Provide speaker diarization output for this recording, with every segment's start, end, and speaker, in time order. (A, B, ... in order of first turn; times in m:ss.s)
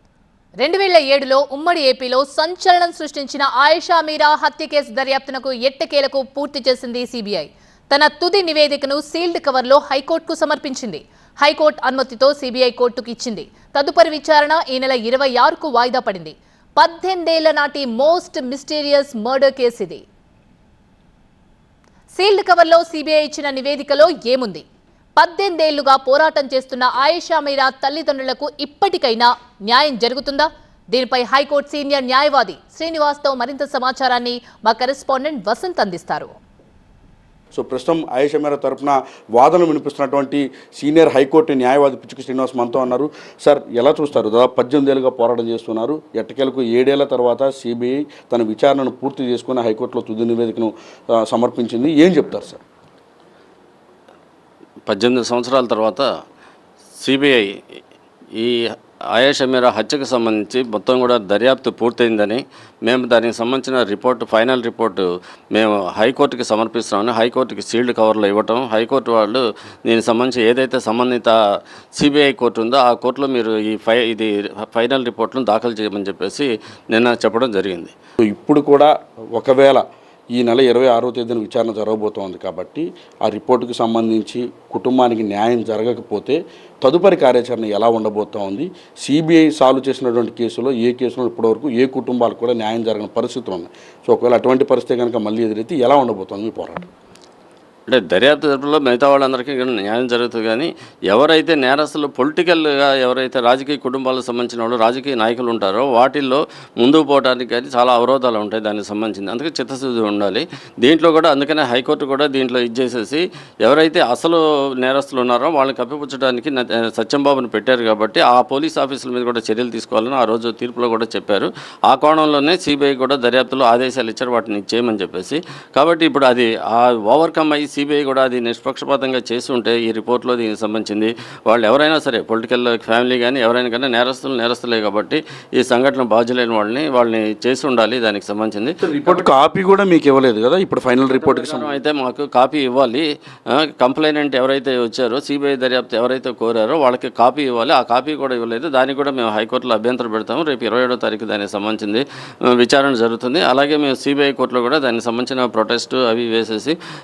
0:00.6-0:20.0 A
0:22.1-0:24.6 A
0:25.2-0:36.3 A
0:37.5-0:52.6 B
0:54.9-0:56.0 C
0:57.0-0:57.5 C
0:59.1-1:11.3 C
1:12.0-1:17.9 C
1:18.2-1:19.8 B
1:20.3-1:36.9 B
1:37.9-2:19.2 C
2:18.8-2:21.7 B
2:21.1-2:23.1 C
2:23.6-2:32.0 C
2:32.6-2:36.8 C